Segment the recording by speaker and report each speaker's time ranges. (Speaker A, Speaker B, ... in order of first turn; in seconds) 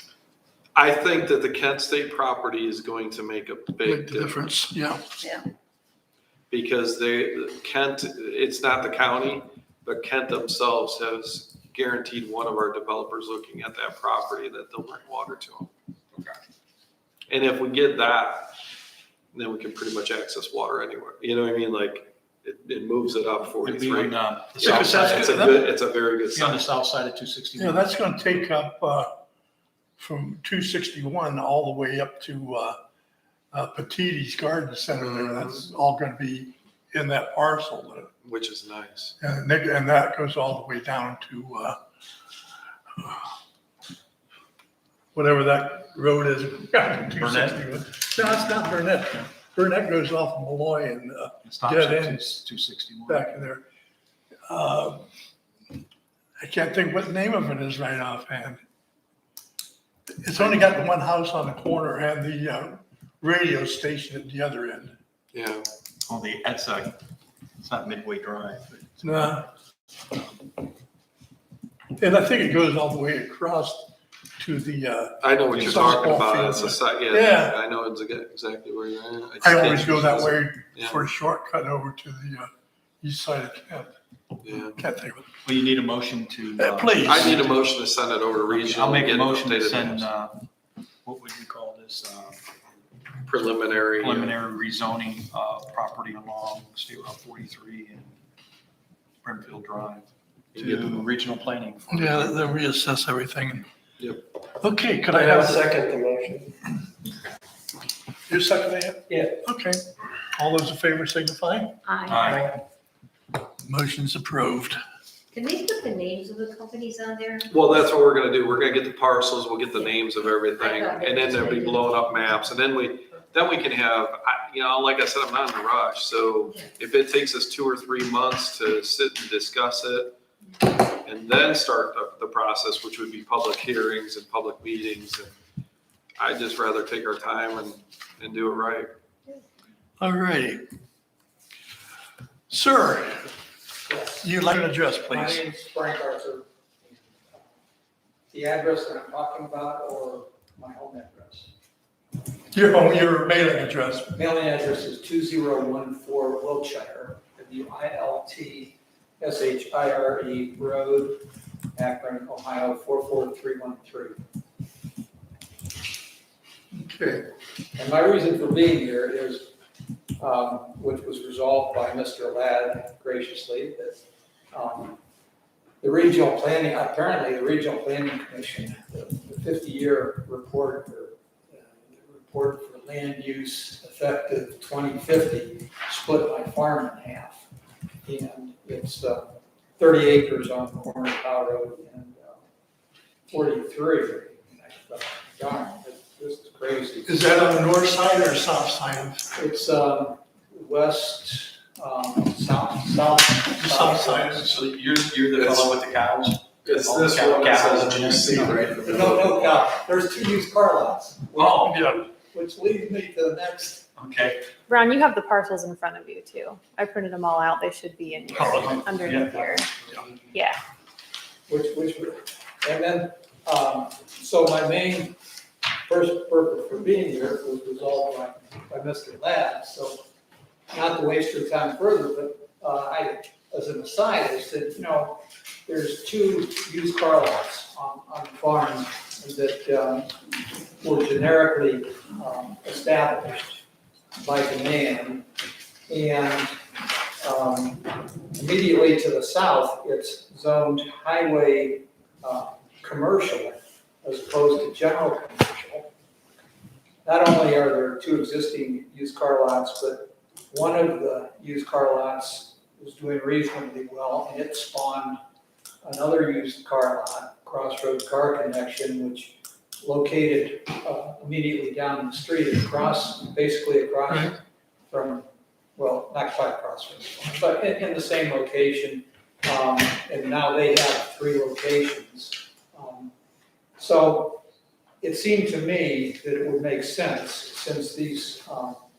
Speaker A: 0.8-4.5, 6.5-16.4, 17.3-18.5, 19.3-26.6, 35.0-35.7, 38.2-39.1, 65.3-65.7, 75.2-81.1, 84.4-84.8, 87.0-90.1, 93.3-94.4, 100.5-101.1, 104.0-104.3, 105.2-106.5, 117.5-130.1, 131.0-135.3, 136.2-138.9, 205.3-205.8, 206.6-209.7
Speaker B: 3.8-5.1, 24.7-25.6, 27.6-29.1, 30.0-32.8, 33.5-38.1, 39.2-41.8, 43.0-43.2, 45.1-52.3, 53.1-53.6, 54.5-55.1, 56.4-58.6, 60.2-65.0, 69.0-69.5, 72.0-77.6, 79.4-82.5, 83.0-83.9, 84.7-85.3, 86.6-87.3, 101.9-103.7, 104.6-105.8, 108.3-111.8, 113.6-114.8, 140.0-140.6, 142.5-143.3, 144.2-145.4, 152.5-154.1, 166.7-167.2, 197.1-199.2, 203.5-204.5, 211.7-212.0, 218.3-218.8, 274.1-274.4
Speaker C: 23.6-25.6, 26.3-27.9, 47.2-47.6, 51.4-53.3, 66.1-67.0, 67.6-68.9, 75.5-75.9, 85.4-87.6, 88.5-90.5, 91.0-92.4, 94.0-98.1, 99.2-102.4, 112.1-112.5, 204.5-209.1, 211.3-211.8, 214.0-214.4, 218.3-220.2
Speaker D: 111.8-112.5, 115.3-117.5, 120.6-122.2
Speaker E: 143.9-144.4, 145.1-147.6, 148.3-151.5, 154.1-164.2, 167.8-169.5, 170.2-174.0, 174.5-175.0, 175.8-187.4, 188.0-192.4, 193.3-197.3, 199.3-204.5, 208.8-213.9, 221.5-225.2, 225.9-230.0, 230.7-240.2, 240.8-243.6, 244.2-245.3, 245.9-246.6, 247.2-255.9, 257.0-265.2, 265.8-274.4, 274.9-283.1, 283.8-284.4, 285.0-288.8
Speaker F: 214.7-219.7, 220.3-220.6